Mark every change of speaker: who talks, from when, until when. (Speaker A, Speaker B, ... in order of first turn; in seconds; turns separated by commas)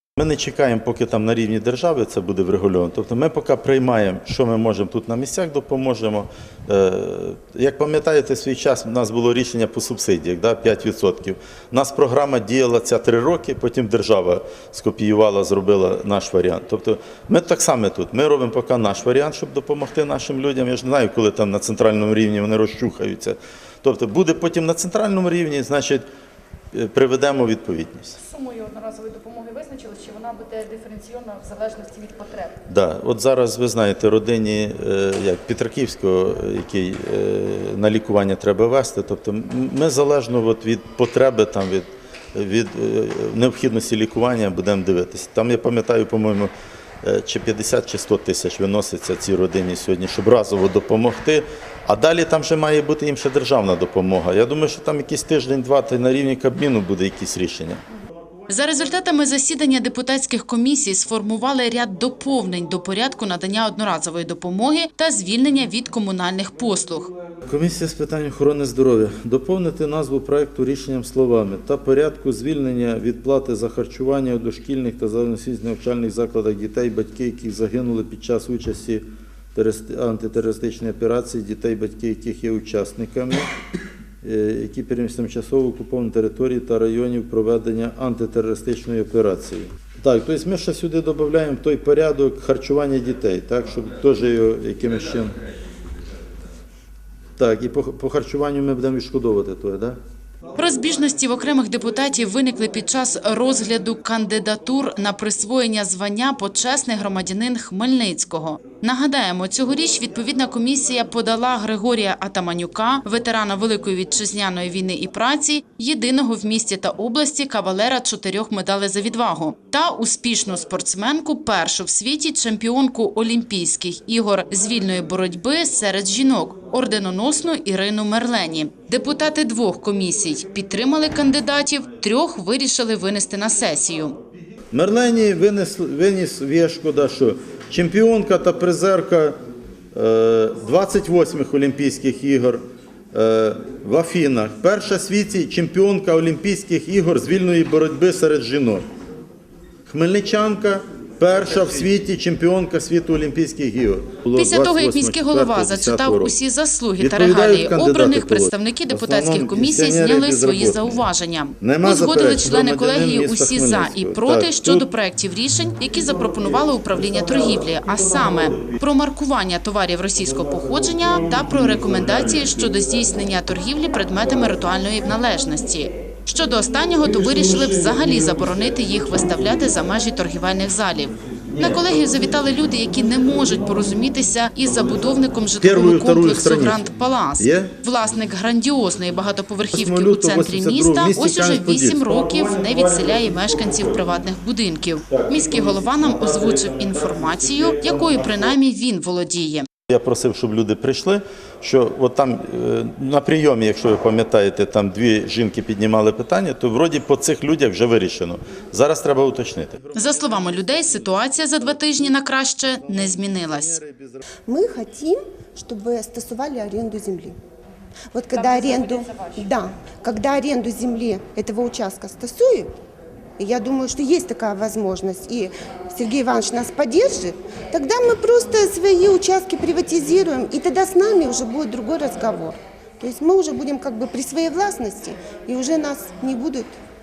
Speaker A: 0.2-26.1, Speaker A: 26.7-28.2, Speaker B: 28.3-32.5, Speaker A: 32.7-46.5, Speaker A: 47.0-57.8, Speaker C: 58.5-67.1, Speaker A: 58.7-59.0, Speaker A: 67.5-83.5, Speaker A: 84.2-95.4, Speaker A: 97.4-100.0, Speaker C: 100.6-134.2, Speaker A: 134.7-139.4, Speaker A: 139.9-142.6, Speaker A: 143.1-148.9, Speaker A: 149.9-156.4, Speaker C: 154.3-199.7, Speaker A: 157.0-161.1, Speaker A: 161.6-164.9, Speaker A: 165.8-168.8, Speaker A: 170.2-172.8, Speaker A: 177.0-179.5, Speaker A: 181.5-182.4, Speaker A: 184.8-187.8, Speaker A: 189.7-194.2, Speaker A: 195.1-198.6, Speaker A: 199.9-214.2, Speaker C: 209.9-213.8, Speaker D: 214.5-217.4, Speaker D: 218.1-222.7, Speaker D: 223.4-236.7